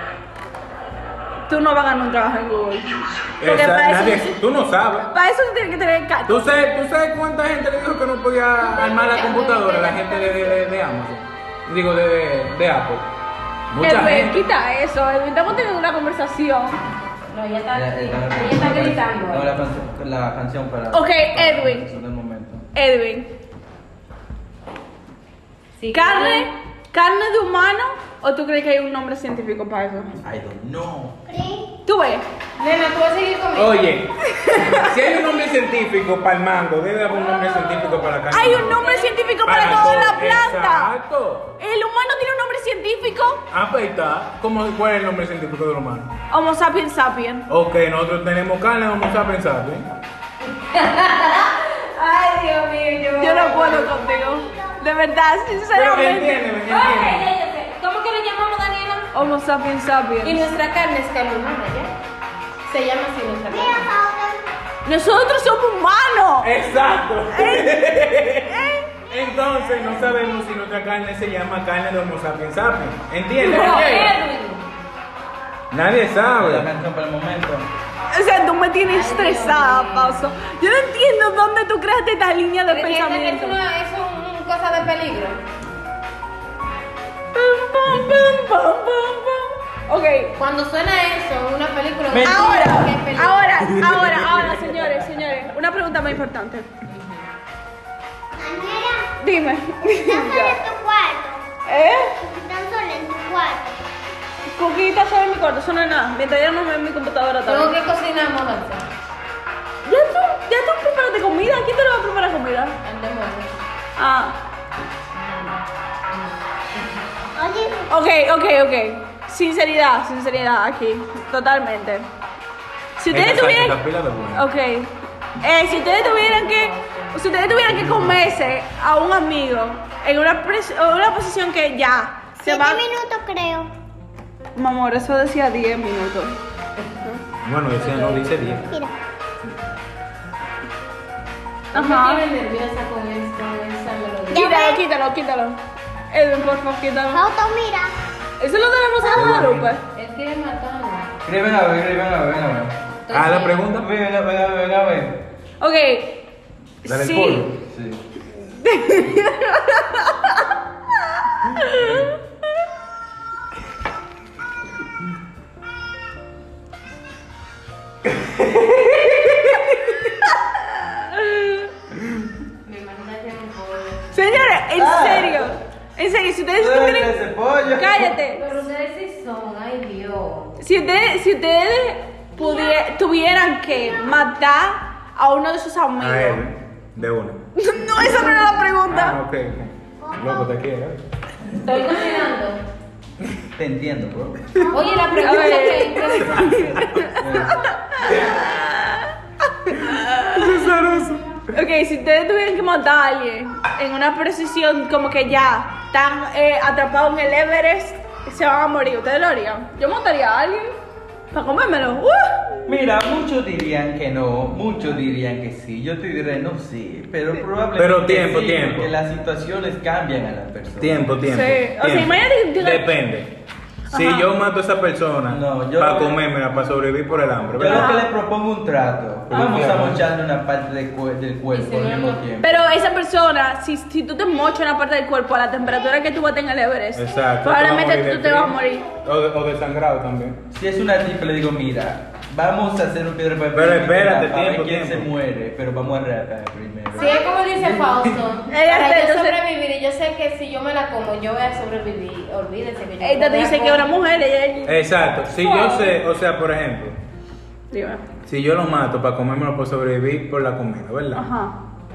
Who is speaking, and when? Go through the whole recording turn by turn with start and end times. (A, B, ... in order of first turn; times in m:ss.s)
0:01.5-0:04.4 A
0:03.4-0:05.1 B
0:05.1-0:06.6 A
0:06.3-0:13.1 B
0:08.6-0:10.6 C
0:13.7-0:14.4 B
0:13.8-0:16.8 A
0:17.3-0:19.5 C
0:17.7-0:22.6 D
0:20.9-0:21.9 A
0:22.7-0:23.3 A
0:25.8-0:26.4 C
0:25.9-0:30.1 A
0:30.2-0:31.2 D
0:31.3-0:31.6 E
0:31.8-0:32.2 A
0:32.6-0:33.9 C
0:33.6-0:38.8 B
0:34.2-0:35.0 A
0:38.3-0:40.9 A
0:38.6-0:40.1 C
0:39.4-0:41.5 B
0:41.6-0:43.4 A
0:43.5-0:46.1 B
0:46.3-0:47.5 A
0:47.5-0:49.8 B
0:50.5-0:53.8 C
0:53.2-0:56.4 A
0:53.3-0:54.8 E
0:55.7-0:57.3 B
0:56.6-0:59.1 C
0:59.1-1:00.4 A
1:00.2-1:01.9 C
1:02.6-1:03.9 C
1:03.5-1:04.4 E
1:04.8-1:06.6 A
1:06.4-1:14.2 B
1:07.3-1:08.9 A
1:09.1-1:10.4 E
1:13.4-1:14.4 A
1:13.5-1:14.6 C
1:15.7-1:16.7 B
1:16.3-1:17.7 D
1:18.1-1:23.6 A
1:18.9-1:20.3 C
1:22.7-1:25.4 C
1:27.3-1:30.3 A
1:30.4-1:33.8 C
1:32.1-1:32.9 D
1:32.2-1:36.7 A
1:33.8-1:34.4 D
1:36.9-1:37.2 C
1:38.4-1:39.0 E
1:39.2-1:40.6 A
1:39.9-1:41.4 E
1:41.7-1:42.2 A
1:42.2-1:43.7 E
1:44.5-1:47.7 A
1:47.4-1:48.8 C
1:49.8-1:52.7 A
1:52.8-1:53.5 C
1:54.0-1:54.4 A
1:55.1-1:55.6 C
1:56.1-1:56.4 C
1:57.4-1:57.9 E
1:57.9-2:02.1 A
2:03.0-2:03.8 A
2:03.1-2:04.4 B
2:04.3-2:12.8 A
2:05.6-2:07.3 C
2:07.6-2:08.3 B
2:12.4-2:13.7 E
2:14.6-2:16.4 A
2:17.4-2:18.7 B
2:17.8-2:18.7 C
2:18.6-2:18.9 E
2:21.7-2:22.2 A
2:21.7-2:24.5 C
2:24.3-2:24.8 E
2:24.3-2:25.6 A
2:26.1-2:27.2 A
2:27.1-2:27.9 E
2:28.4-2:29.8 A
2:29.1-2:29.7 B
2:29.9-2:31.1 C
2:31.2-2:32.8 D
2:33.0-2:33.7 C
2:33.1-2:33.9 B
2:33.8-2:35.2 D
2:35.6-2:36.2 A
2:36.8-2:37.5 A
2:36.8-2:37.5 B
2:37.6-2:38.0 D
2:38.4-2:40.5 A
2:41.0-2:42.1 A
2:41.7-2:42.1 B
2:48.0-2:49.9 D
2:50.2-2:51.7 A
2:52.6-2:54.1 C
2:54.1-2:58.4 A
2:54.7-2:55.5 D
2:56.6-2:58.1 D
2:58.3-3:00.6 C
3:00.6-3:06.4 A
3:02.4-3:02.8 E
3:06.0-3:07.4 B
3:07.6-3:09.2 A
3:08.0-3:11.0 B
3:10.0-3:10.5 E
3:11.6-3:12.6 C
3:13.6-3:14.5 D
3:14.7-3:16.8 C
3:15.2-3:20.6 A
3:17.2-3:18.3 D
3:19.9-3:21.2 B
3:21.5-3:30.7 A
3:31.3-3:32.6 A
3:32.7-3:41.0 D
3:37.7-3:38.9 B
3:40.8-3:43.3 B
3:41.2-3:42.9 A
3:43.9-3:44.3 A
3:43.9-3:48.0 B
3:45.3-3:46.2 D
3:47.6-3:52.5 D
3:47.7-3:48.1 A
3:49.3-3:50.1 B
3:49.4-3:49.6 A
3:51.5-3:52.2 C
3:52.4-3:58.9 A
3:56.9-4:00.4 B
3:58.6-3:59.0 E
4:00.5-4:08.1 D
4:03.5-4:05.1 B
4:06.9-4:13.9 C
4:08.5-4:09.4 A
4:13.0-4:16.0 A
4:14.6-4:17.0 B
4:17.7-4:18.0 A
4:18.2-4:21.2 B
4:21.1-4:21.5 A